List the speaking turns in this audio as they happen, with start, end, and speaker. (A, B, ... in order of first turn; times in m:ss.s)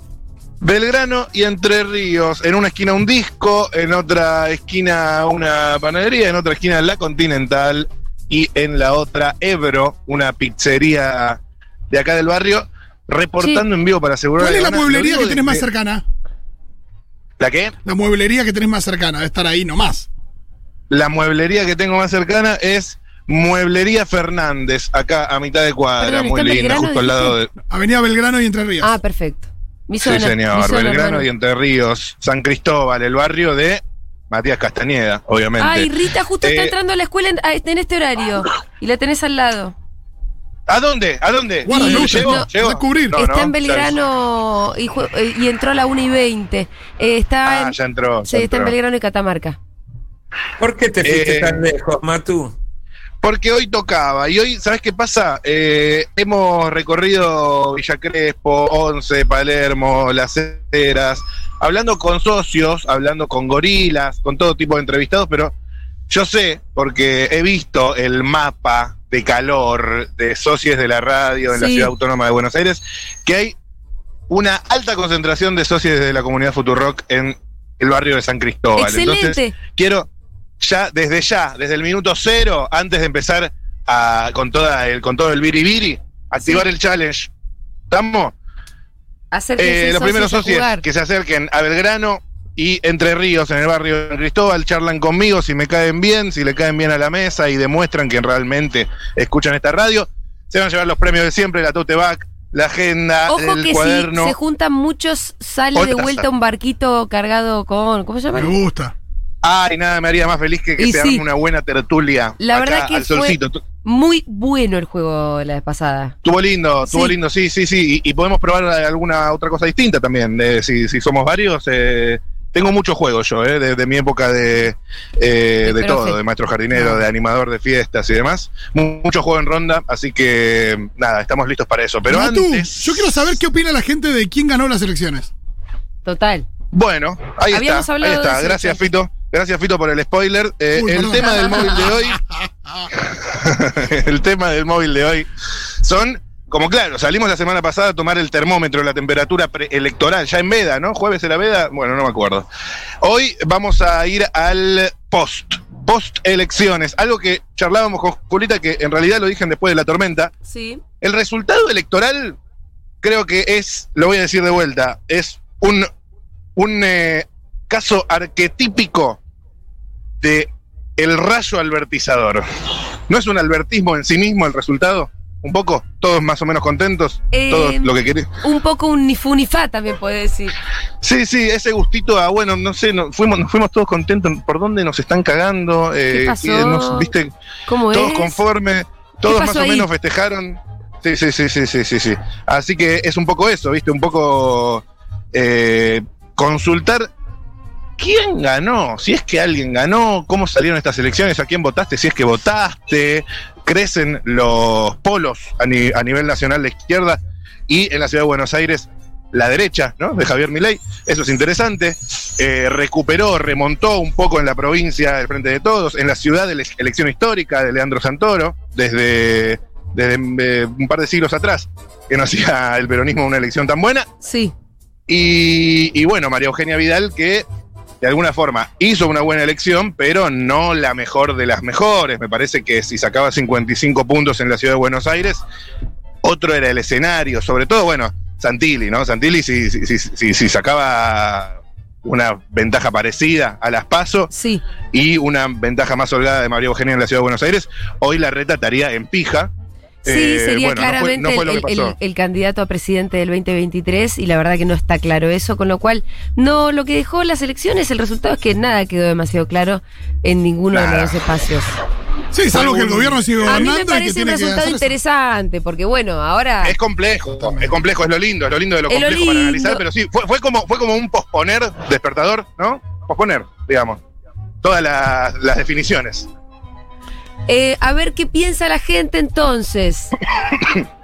0:00.6-0:15.6 A
0:13.4-0:13.6 B
0:14.4-0:16.0 C
0:17.4-0:17.7 A
0:17.8-0:20.1 C
0:20.9-0:27.5 A
0:26.0-0:27.3 B
0:27.7-0:28.9 C
0:28.8-0:31.3 B
0:30.0-0:35.9 A
0:35.6-0:39.7 B
0:36.4-0:36.7 A
0:40.7-0:44.0 A
0:41.6-0:43.2 C
0:41.7-0:42.5 B
0:43.1-0:49.6 B
0:47.4-0:48.8 A
0:50.6-0:52.6 D
0:51.0-0:51.7 A
0:53.2-1:05.5 A
1:06.1-1:13.6 A
1:11.5-1:11.9 B
1:14.3-1:20.1 A
1:18.8-1:19.6 B
1:20.6-1:27.3 A
1:26.4-1:26.7 B
1:27.9-1:28.3 A
1:29.3-1:30.8 B
1:29.6-1:44.4 A
1:43.3-1:48.6 B
1:45.8-1:46.2 A
1:48.3-1:48.9 C
1:49.4-1:53.6 A
1:50.8-1:51.2 B
1:52.4-1:56.2 B
1:56.2-2:13.3 A
1:56.9-1:57.2 B
2:05.6-2:06.2 B
2:06.7-2:07.0 C
2:12.1-2:15.3 C
2:16.0-2:16.5 B
2:16.7-2:22.2 A
2:17.5-2:18.8 B
2:20.7-2:22.9 C
2:21.3-2:21.9 B
2:22.9-2:25.3 A
2:25.8-2:32.5 A
2:33.0-2:40.3 A
2:40.4-2:40.8 B
2:41.0-2:42.4 A
2:43.0-2:45.9 A
2:46.6-2:49.2 A
2:50.2-2:52.4 A
2:53.1-2:58.3 A
2:57.3-3:00.6 B
3:01.0-3:07.3 A
3:06.1-3:07.1 B
3:07.7-3:08.4 B
3:07.9-3:17.1 A
3:09.3-3:09.9 B
3:18.0-3:44.1 A
3:44.2-3:44.5 B
3:45.1-3:47.4 A
3:48.0-3:55.4 A
3:56.2-4:04.3 A
4:04.3-4:04.6 B
4:04.9-4:09.5 A
4:10.0-4:12.0 A
4:10.0-4:21.7 B
4:20.7-4:21.2 A
4:22.3-4:25.0 C
4:22.5-4:23.7 A
4:23.5-4:26.8 B
4:26.6-4:34.0 A
4:27.4-4:27.7 C
4:28.9-4:29.8 B
4:34.6-4:36.3 A
4:37.5-4:40.1 B
4:40.5-4:40.9 A